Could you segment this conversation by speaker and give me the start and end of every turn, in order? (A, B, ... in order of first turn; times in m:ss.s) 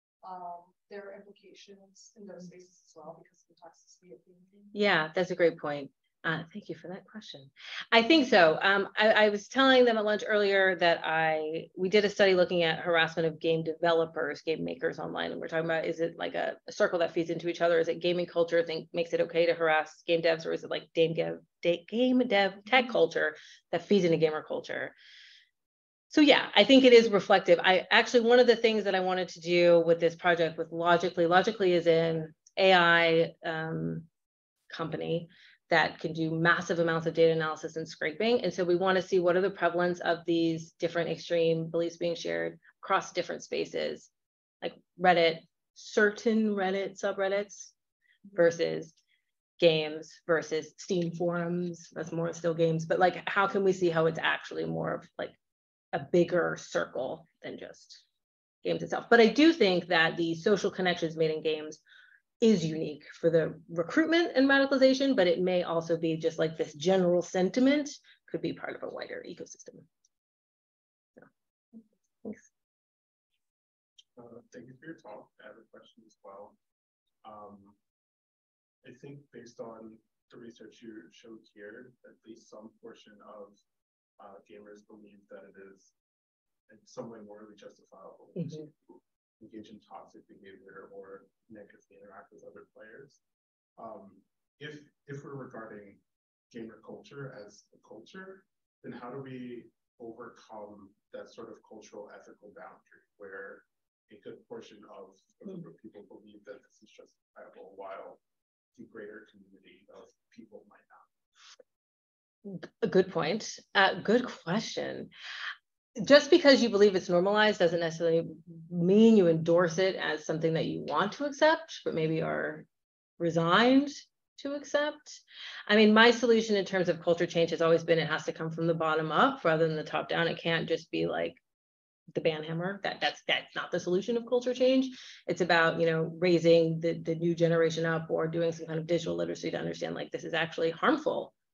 0:00.2-0:04.7 A
0:04.7-0:24.9 B
0:26.1-0:34.1 B
0:34.7-0:44.1 B
0:44.6-0:47.7 B
0:48.3-0:48.9 B
0:49.6-0:55.4 B
0:55.9-0:58.0 B
0:58.6-1:01.8 B
1:02.4-1:09.8 B
1:14.2-1:16.6 C
1:17.2-1:17.8 C
1:18.8-1:23.6 C
1:24.2-1:25.9 C
1:26.7-1:33.2 C
1:28.4-1:28.7 B
1:33.8-1:48.2 C
1:48.7-1:51.1 C
1:52.4-1:55.1 B
1:56.0-2:02.7 B
2:03.2-2:11.4 B
2:12.1-2:21.3 B